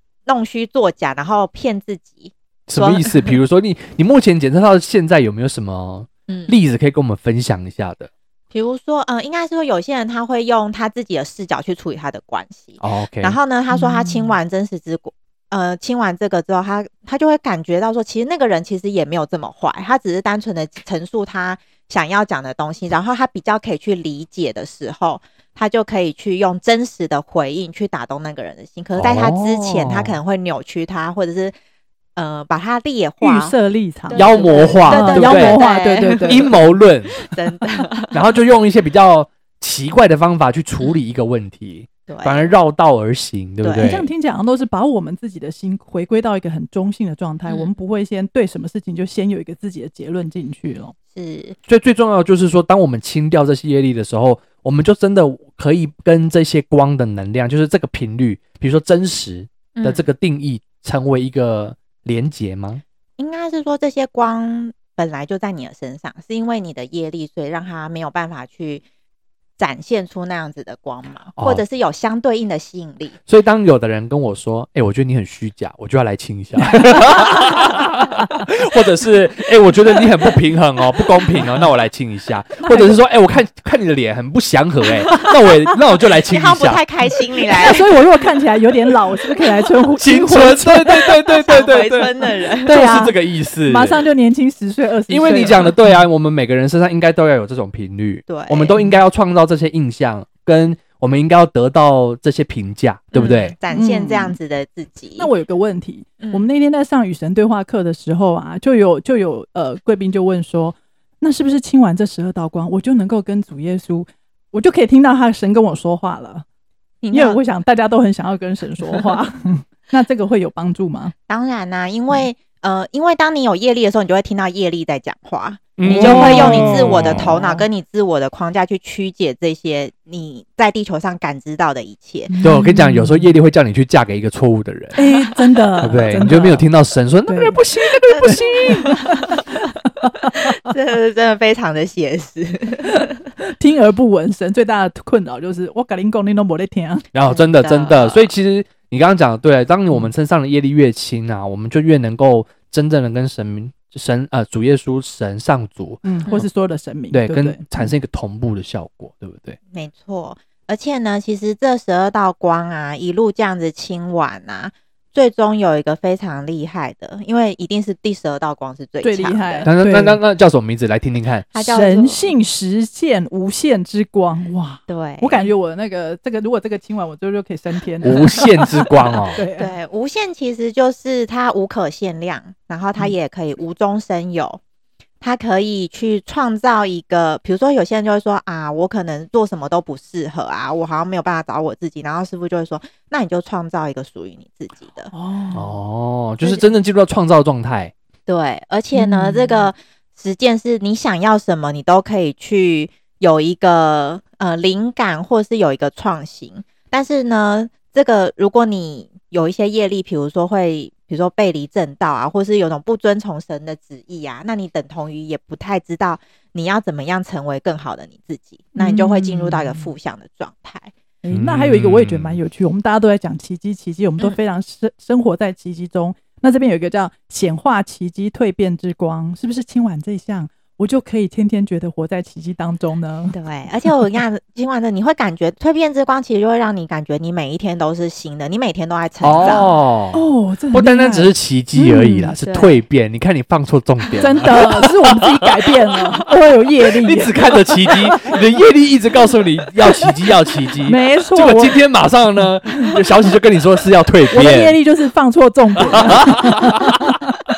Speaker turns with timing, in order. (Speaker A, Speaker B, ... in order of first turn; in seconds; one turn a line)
Speaker A: 0.3-3.4
Speaker B: 2.7-8.1
Speaker A: 6.3-6.5
Speaker A: 8.5-31.5
Speaker B: 12.8-13.4
Speaker C: 13.7-14.4
Speaker B: 29.0-30.2
Speaker A: 32.2-33.5
Speaker C: 33.2-36.6
Speaker A: 34.1-36.5
Speaker B: 34.1-35.7
Speaker B: 36.2-37.2
Speaker A: 37.3-38.2
Speaker B: 38.1-44.1
Speaker A: 42.1-42.6
Speaker A: 43.6-44.0
Speaker C: 43.8-51.0
Speaker A: 47.5-47.7
Speaker A: 51.1-51.6
Speaker B: 51.7-62.8
Speaker A: 59.8-60.1
Speaker A: 63.2-68.8
Speaker A: 69.6-73.2
Speaker B: 71.4-71.6
Speaker B: 73.3-86.8
Speaker C: 82.6-83.0
Speaker A: 86.3-87.9
Speaker C: 87.5-91.2
Speaker B: 90.0-92.1
Speaker A: 91.3-93.1
Speaker C: 92.6-96.0
Speaker B: 92.7-94.0
Speaker B: 95.1-103.5
Speaker A: 95.2-95.6
Speaker A: 98.3-98.8
Speaker A: 103.1-105.3
Speaker C: 103.7-104.4
Speaker C: 105.2-116.5
Speaker A: 106.2-106.5
Speaker A: 117.0-117.4
Speaker C: 117.1-121.1
Speaker A: 121.3-132.3
Speaker B: 125.8-127.3
Speaker C: 125.8-127.7
Speaker C: 132.3-133.3
Speaker B: 132.4-135.0
Speaker C: 134.9-136.7
Speaker B: 135.8-138.9
Speaker C: 137.3-137.6
Speaker A: 138.1-139.6
Speaker C: 138.2-139.3
Speaker A: 140.2-143.2
Speaker C: 143.6-147.1
Speaker B: 147.1-156.0
Speaker A: 147.3-148.3
Speaker C: 156.0-157.9
Speaker B: 157.1-159.6
Speaker A: 159.7-169.7
Speaker C: 169.0-170.2
Speaker B: 169.7-171.5
Speaker A: 171.5-172.3
Speaker C: 171.6-179.7
Speaker A: 174.9-175.5
Speaker B: 178.0-179.4
Speaker A: 179.6-184.6
Speaker A: 185.2-195.1
Speaker C: 195.1-195.8
Speaker B: 195.5-197.9
Speaker A: 196.4-196.7
Speaker A: 198.3-220.9
Speaker C: 198.9-199.7
Speaker C: 218.8-219.9
Speaker C: 221.2-233.9
Speaker B: 221.3-222.4
Speaker A: 233.3-239.7
Speaker B: 239.2-245.5
Speaker C: 239.4-242.4
Speaker A: 242.4-242.8
Speaker C: 244.2-248.4
Speaker B: 246.9-254.8
Speaker C: 249.8-250.1
Speaker C: 250.8-251.8
Speaker C: 254.3-257.2
Speaker B: 255.9-257.1